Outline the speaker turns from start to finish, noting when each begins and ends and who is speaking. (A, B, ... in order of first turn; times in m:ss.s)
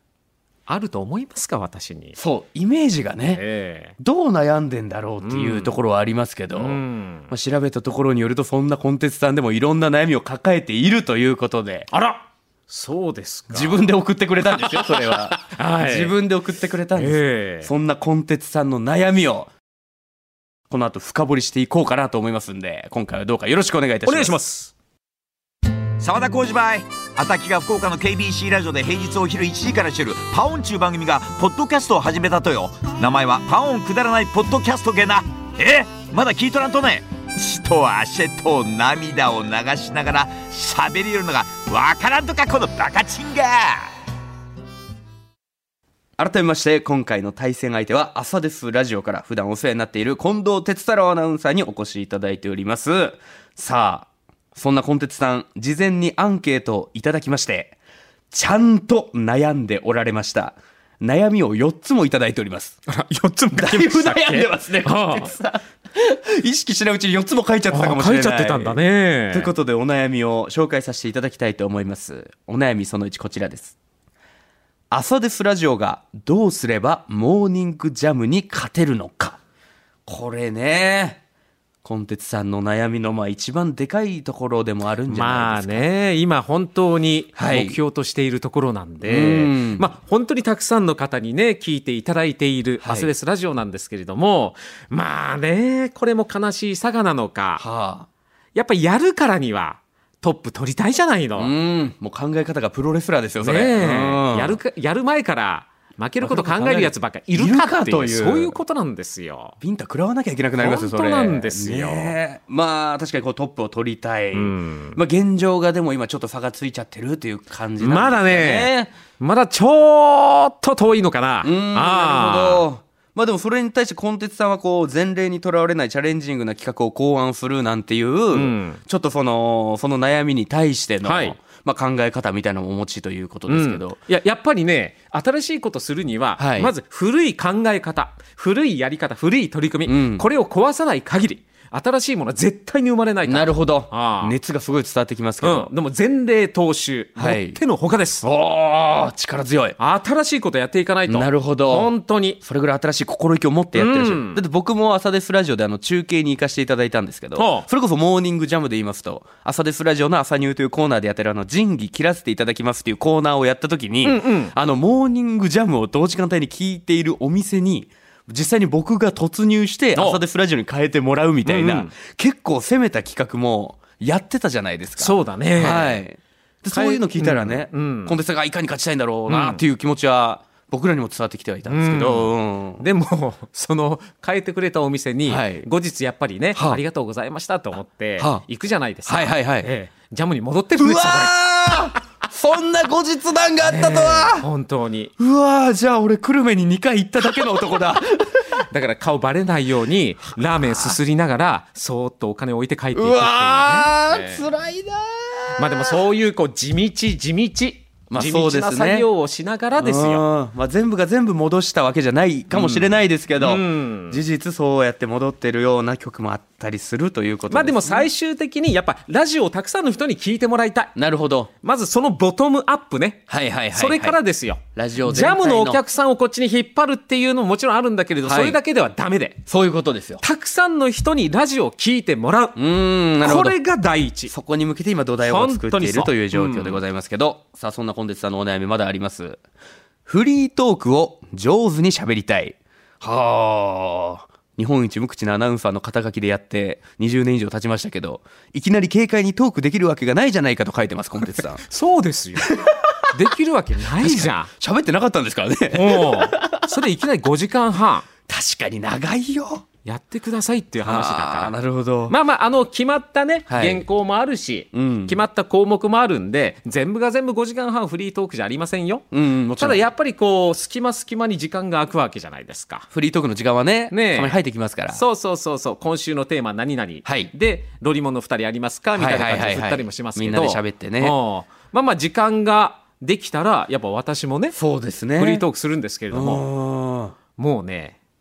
0:00.7-0:02.2 A
0:02.2-0:03.4 B
0:03.3-0:04.0 A
0:04.0-0:11.9 B
0:05.2-0:05.8 A
0:06.5-0:07.3 A
0:11.9-0:13.9 A
0:13.5-0:19.5 B
0:14.5-0:16.1 A
0:17.0-0:17.7 A
0:20.7-0:24.4 B
0:24.0-0:24.7 A
0:26.0-0:43.9 C
0:46.2-0:57.8 B
0:58.3-1:02.8 B
1:02.9-1:05.3 A
1:03.5-1:08.8 B
1:07.7-1:09.5 A
1:09.3-1:13.7 B
1:14.9-1:19.4 B
1:20.0-1:21.2 B
1:21.8-1:25.9 B
1:25.1-1:37.6 A
1:27.4-1:27.8 B
1:29.0-1:29.9 B
1:32.8-1:33.1 B
1:37.6-1:38.1 B
1:38.5-1:41.5 A
1:41.4-1:44.6 B
1:43.4-1:49.6 A
1:46.2-1:48.6 B
1:49.6-1:58.9 B
1:50.6-1:52.1 A
1:54.3-1:55.0 A
1:57.8-2:02.6 A
2:01.4-2:14.0 B
2:08.3-2:08.8 A
2:11.0-2:11.4 A
2:13.5-2:24.4 A
2:16.4-2:16.7 B
2:19.8-2:20.2 B
2:23.2-2:25.7 B
2:25.4-2:28.2 A
2:27.2-2:27.6 B
2:28.2-2:29.8 B
2:29.8-2:32.4 A
2:31.1-3:02.8 B
2:33.8-2:34.4 A
2:37.4-2:37.7 A
2:44.0-2:44.5 A
2:50.0-2:50.2 A
2:51.4-2:51.9 A
2:55.0-2:56.0 A
2:56.7-2:58.2 A
2:59.3-2:59.6 A
3:01.7-3:12.0 A
3:05.3-3:05.6 B
3:06.5-3:06.8 B
3:08.2-3:08.4 B
3:09.0-3:09.7 B
3:10.8-3:14.5 B
3:13.6-3:15.1 A
3:15.2-3:18.6 B
3:18.7-3:24.4 A
3:23.0-3:26.0 B
3:25.6-3:30.2 A
3:28.1-3:29.1 B
3:29.8-3:38.1 B
3:32.5-3:34.2 A
3:37.5-3:40.9 A
3:41.0-3:41.5 B
3:41.6-3:49.4 A
3:43.3-3:44.2 B
3:44.7-3:45.8 B
3:48.2-3:48.6 B
3:49.5-3:50.2 B
3:50.2-3:52.6 A
3:52.6-3:53.6 B
3:53.2-3:54.3 A
3:54.3-3:59.4 B
3:55.2-3:56.8 A
4:00.0-4:11.6 B
4:11.4-4:14.5 A
4:12.4-4:13.1 B
4:14.0-4:16.7 B
4:15.7-4:18.1 A
4:18.3-4:19.6 B
4:19.8-4:21.5 A
4:20.8-4:22.1 B
4:22.1-4:29.0 A
4:23.5-4:23.8 B
4:24.7-4:25.2 B
4:29.1-4:29.8 B
4:29.6-4:32.9 A
4:32.9-4:35.0 B
4:33.9-4:34.4 A
4:34.9-4:44.6 A
4:37.0-4:37.3 B
4:39.0-4:41.2 B
4:44.5-4:45.4 B
4:45.2-4:46.4 A
4:46.1-4:47.2 B
4:47.4-4:48.0 A